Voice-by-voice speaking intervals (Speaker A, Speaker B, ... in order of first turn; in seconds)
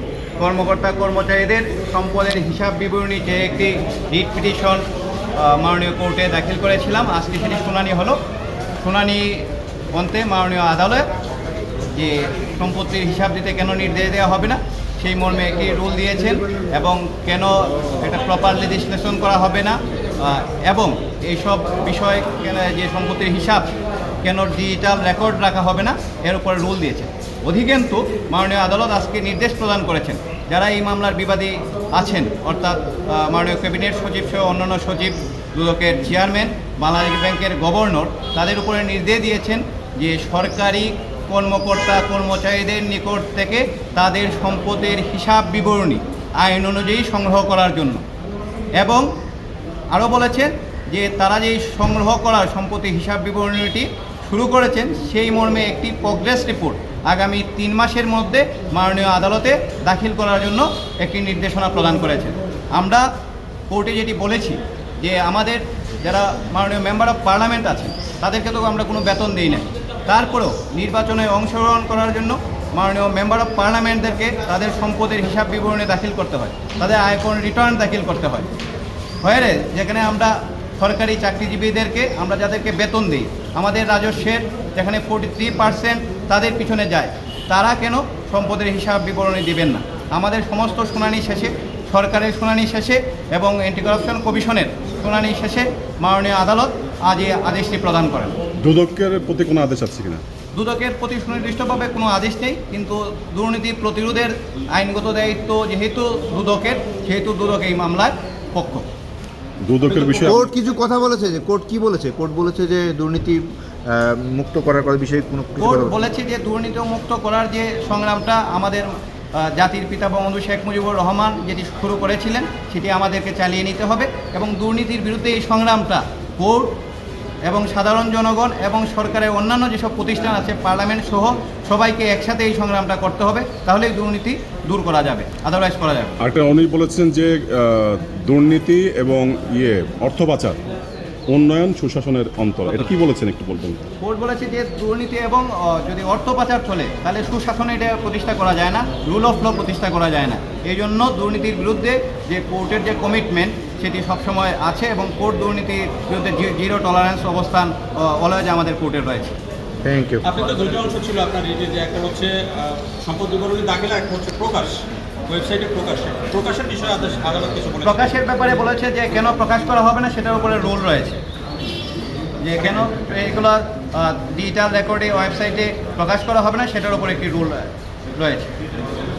Speaker A: 0.4-4.8, 5.3-8.2, 8.8-11.1, 11.9-23.7, 24.2-48.0, 48.8-49.1, 49.9-63.1, 63.7-78.5, 79.2-98.3, 100.5-108.9, 115.6-126.7, 127.5-136.1, 144.0-159.3, 167.8-171.2, 172.4-178.5
Speaker B: 98.6-100.2, 109.6-110.5, 136.2-140.6, 141.3-143.8
Speaker C: 109.9-110.5, 160.2-168.1
Speaker D: 110.2-116.0, 159.8-160.2